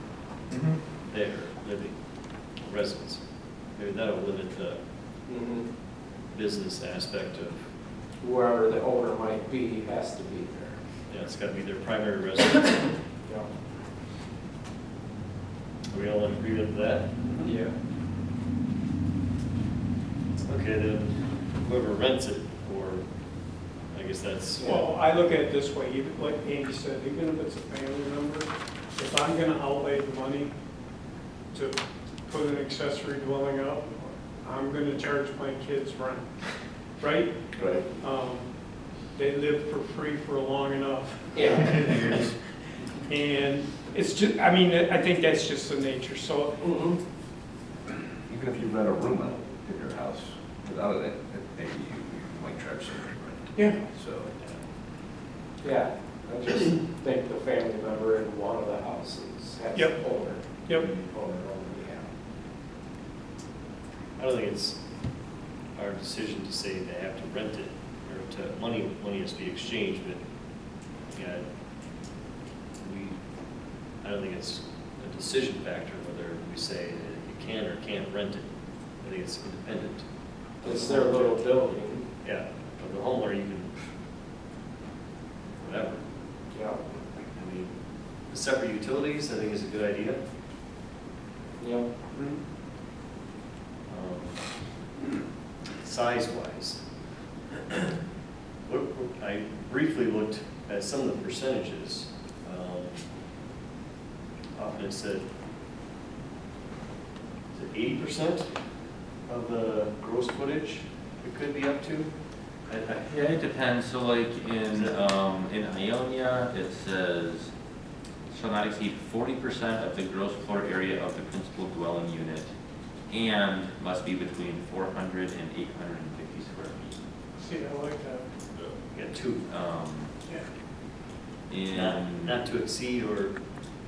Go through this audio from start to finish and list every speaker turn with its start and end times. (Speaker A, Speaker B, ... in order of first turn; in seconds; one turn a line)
Speaker A: 0.5-0.8
Speaker B: 1.0-4.8
Speaker C: 5.3-5.7
Speaker B: 6.3-7.6
Speaker C: 8.2-10.8
Speaker B: 11.1-13.0
Speaker B: 15.9-17.1
Speaker D: 17.2-17.5
Speaker C: 17.4-17.7
Speaker B: 20.4-23.1
Speaker B: 23.9-24.7
Speaker D: 24.6-30.5
Speaker D: 31.5-42.3
Speaker E: 37.5-37.8
Speaker C: 41.3-41.7
Speaker D: 42.9-46.8
Speaker C: 46.6-47.0
Speaker E: 48.2-54.4
Speaker D: 53.5-53.8
Speaker C: 55.6-62.0
Speaker D: 59.7-60.0
Speaker B: 64.2-64.8
Speaker B: 65.7-71.4
Speaker B: 72.8-73.2
Speaker B: 74.0-78.5
Speaker B: 79.0-81.4
Speaker C: 80.6-82.0
Speaker B: 82.2-83.9
Speaker B: 85.6-86.0
Speaker C: 86.5-86.8
Speaker B: 87.2-87.7
Speaker B: 88.2-90.2
Speaker C: 91.6-91.9
Speaker D: 92.1-92.4
Speaker B: 93.9-94.8
Speaker B: 95.8-96.8
Speaker B: 98.6-103.0
Speaker B: 104.5-105.2
Speaker B: 107.5-108.6
Speaker B: 109.2-112.1
Speaker A: 112.7-117.5
Speaker B: 114.7-115.0
Speaker A: 118.3-122.5
Speaker A: 123.1-126.9
Speaker D: 127.4-128.3
Speaker B: 128.5-129.4
Speaker A: 129.5-130.1
Speaker A: 131.5-132.3
Speaker B: 131.7-133.4